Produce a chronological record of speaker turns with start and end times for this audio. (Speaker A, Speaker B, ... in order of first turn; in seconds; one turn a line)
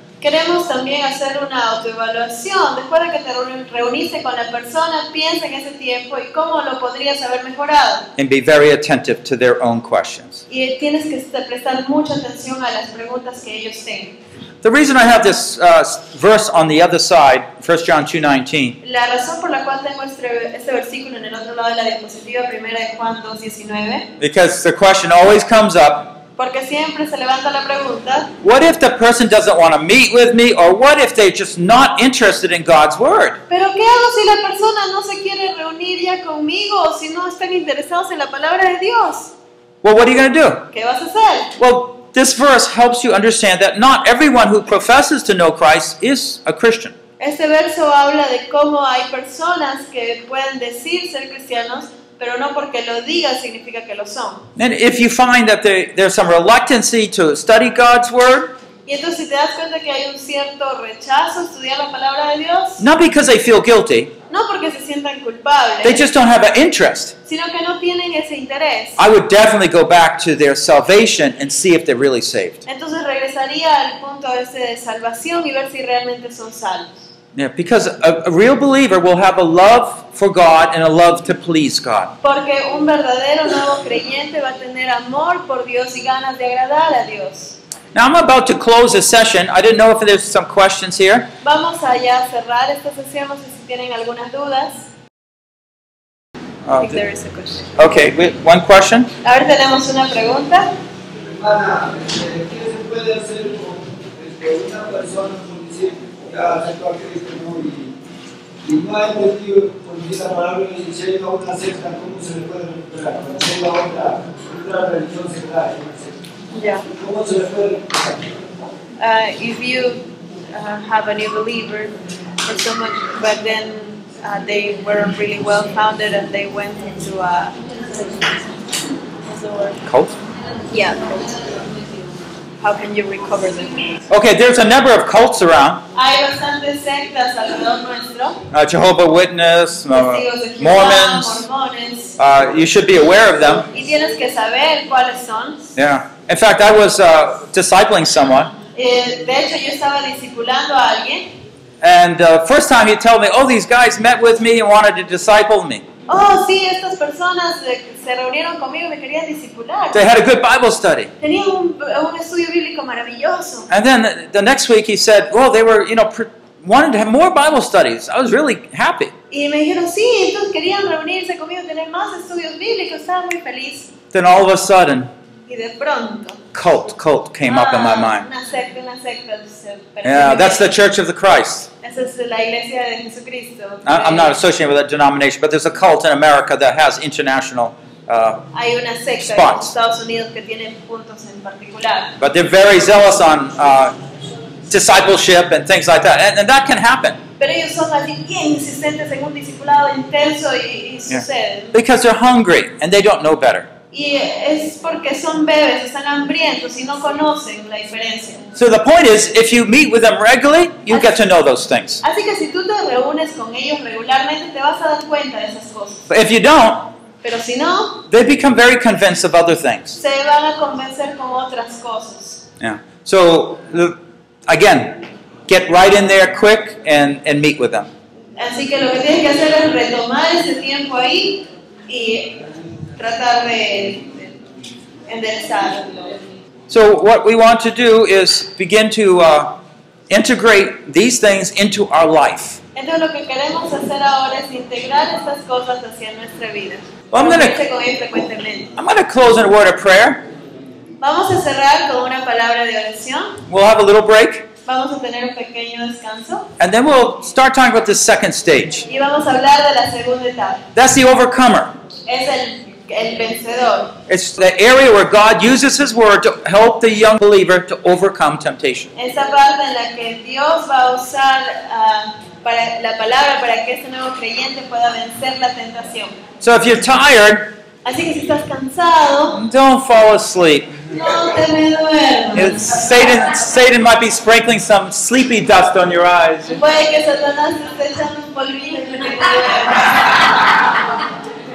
Speaker A: 0.2-8.1
Speaker B: 8.2-10.4
Speaker A: 10.5-14.2
Speaker B: 14.6-18.8
Speaker A: 18.8-24.1
Speaker B: 24.2-26.2
Speaker A: 26.4-28.3
Speaker B: 28.4-33.4
Speaker A: 33.5-39.3
Speaker B: 39.8-40.7
Speaker A: 40.7-41.5
Speaker B: 41.6-47.0
Speaker A: 47.2-54.5
Speaker B: 54.6-58.5
Speaker A: 58.9-62.8
Speaker B: 62.8-64.1
Speaker A: 64.3-66.1
Speaker B: 65.8-67.1
Speaker A: 67.3-69.0
Speaker B: 69.0-72.6
Speaker A: 72.7-77.0
Speaker B: 77.3-82.2
Speaker A: 82.2-87.6
Speaker B: 88.0-91.3
Speaker A: 91.4-94.9
Speaker B: 96.7-97.0
Speaker A: 96.8-97.7
Speaker B: 97.8-99.1
Speaker A: 99.2-100.7
Speaker C: 101.2-107.9
Speaker C: 108.6-116.1
Speaker A: 116.5-116.8
Speaker C: 116.9-118.3
Speaker A: 119.0-121.9
Speaker A: 122.4-128.3
Speaker A: 129.3-129.8
Speaker B: 129.8-130.2
Speaker A: 130.7-131.6
Speaker A: 132.6-133.9
Speaker B: 134.1-135.8
Speaker A: 135.9-138.4
Speaker B: 138.5-141.4
Speaker A: 139.9-142.2
Speaker B: 142.2-143.7
Speaker A: 143.7-145.7
Speaker B: 145.8-148.5
Speaker A: 148.7-151.3
Speaker B: 151.8-155.8
Speaker A: 156.1-160.1
Speaker B: 159.9-161.1
Speaker A: 161.2-163.7
Speaker B: 163.7-169.1
Speaker A: 169.3-173.9
Speaker B: 174.1-175.1
Speaker A: 175.5-176.4
Speaker B: 176.5-178.3
Speaker A: 177.5-180.7
Speaker B: 180.0-181.7
Speaker A: 181.8-184.4
Speaker B: 183.8-188.4
Speaker A: 188.5-192.2
Speaker B: 189.2-189.7
Speaker B: 192.2-193.9
Speaker B: 194.7-197.2
Speaker A: 197.4-201.7
Speaker B: 201.1-203.7
Speaker A: 203.9-208.4
Speaker B: 208.6-212.0
Speaker A: 210.9-211.1
Speaker A: 212.0-216.0
Speaker B: 216.1-216.9
Speaker A: 217.2-218.0
Speaker B: 218.1-220.0
Speaker A: 220.0-222.4
Speaker B: 222.6-227.9
Speaker A: 228.4-232.4
Speaker A: 233.0-234.3
Speaker A: 235.1-236.2
Speaker B: 236.7-239.6
Speaker B: 240.1-242.6
Speaker A: 242.8-248.7
Speaker B: 247.1-247.6
Speaker B: 248.8-250.2
Speaker A: 251.0-253.4
Speaker B: 253.5-254.5
Speaker A: 254.7-256.5
Speaker B: 256.6-258.8
Speaker A: 258.9-260.6
Speaker B: 260.8-261.7
Speaker A: 262.1-263.9
Speaker B: 264.1-268.9
Speaker A: 269.0-276.1
Speaker B: 276.4-277.5
Speaker A: 277.9-279.4
Speaker B: 279.3-280.8
Speaker A: 280.9-282.7
Speaker B: 282.4-286.6
Speaker A: 286.5-290.5